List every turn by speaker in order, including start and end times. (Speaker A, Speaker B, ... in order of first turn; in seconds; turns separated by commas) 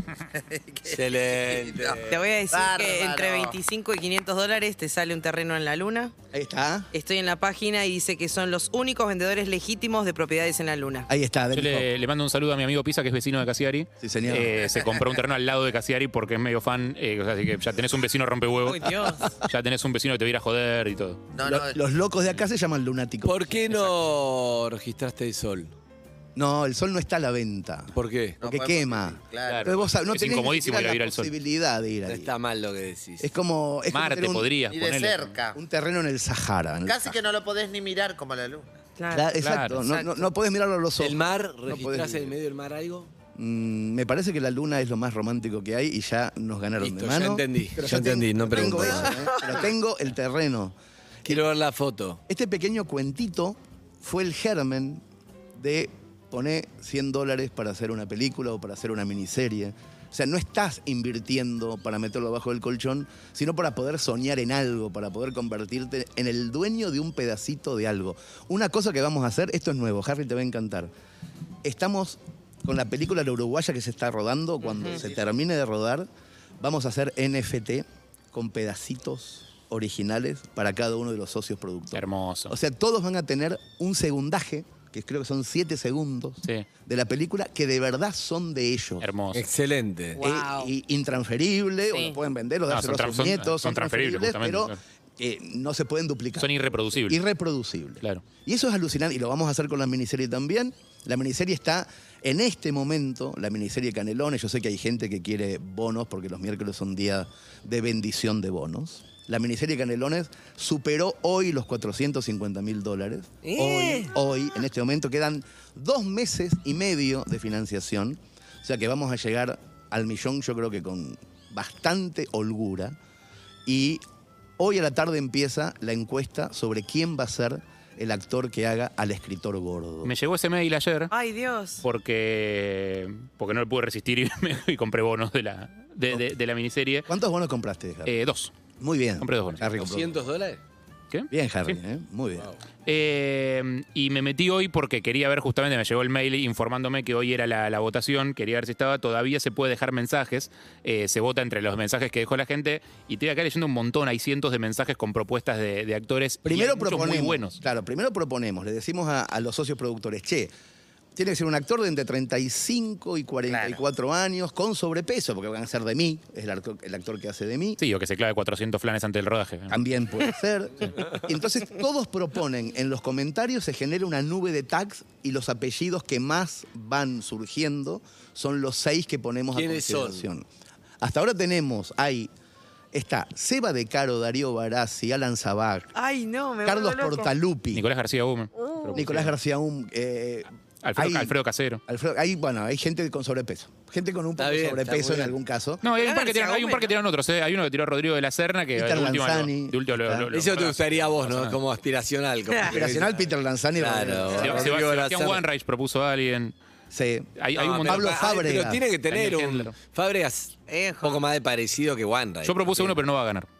Speaker A: 0.2-3.5, Speaker B: 0.9-2.2, Speaker C: 2.1-6.1, Speaker D: 6.3-6.9, Speaker C: 6.9-11.1, Speaker D: 11.1-11.9, Speaker E: 11.5-21.2, Speaker D: 14.0-14.7, Speaker C: 18.6-19.3, Speaker A: 21.3-21.8, Speaker D: 21.4-23.7, Speaker B: 23.2-25.7, Speaker D: 26.4-32.3, Speaker B: 27.9-28.4, Speaker A: 28.4-29.8, Speaker E: 29.5-31.3, Speaker B: 32.1-33.3, Speaker D: 33.2-34.5, Speaker E: 33.9-35.4, Speaker A: 34.7-35.6, Speaker D: 35.5-37.2, Speaker A: 36.9-38.8, Speaker C: 39.0-40.2, Speaker D: 39.1-42.3, Speaker E: 39.4-39.8, Speaker B: 41.0-43.1, Speaker D: 43.4-50.7, Speaker B: 46.8-49.5, Speaker B: 51.2-52.2, Speaker D: 52.3-55.0, Speaker D: 55.5-70.9, Speaker D: 71.6-76.1, Speaker D: 76.6-89.1, Speaker E: 81.9-82.5, Speaker E: 89.0-89.5, Speaker B: 89.3-90.2, Speaker C: 90.2-90.7, Speaker D: 90.2-123.0, Speaker E: 92.7-94.8, Speaker E: 96.4-97.2, Speaker B: 113.4-114.1, Speaker D: 123.7-124.0, Speaker D: 124.6-130.1, Speaker E: 130.0-131.1, Speaker C: 131.1-131.8, Speaker E: 131.8-137.1, Speaker D: 137.1-138.2, Speaker E: 138.1-138.5, Speaker D: 138.8-140.1, Speaker E: 139.2-139.6, Speaker B: 139.8-140.6, Speaker D: 141.3-142.5, Speaker E: 142.8-157.6, Speaker D: 156.4-160.5, Speaker D: 161.2-167.8, Speaker A: 163.5-163.8, Speaker E: 167.8-169.8, Speaker D: 169.7-180.4, Speaker B: 179.5-180.2, Speaker D: 181.0-182.3, Speaker D: 182.9-185.9, Speaker C: 185.9-187.3, Speaker D: 186.6-187.8, Speaker E: 187.7-189.3, Speaker C: 188.6-188.9, Speaker D: 188.9-191.3, Speaker E: 190.8-191.8, Speaker D: 191.9-195.8, Speaker B: 194.4-195.3, Speaker E: 195.8-201.6, Speaker C: 195.9-196.9, Speaker D: 198.7-200.3, Speaker B: 200.3-205.4, Speaker D: 202.7-204.7, Speaker E: 204.4-206.5, Speaker D: 206.9-208.8, Speaker E: 207.4-208.2, Speaker B: 207.6-213.0, Speaker E: 209.1-209.7, Speaker C: 210.7-211.2, Speaker E: 212.4-213.5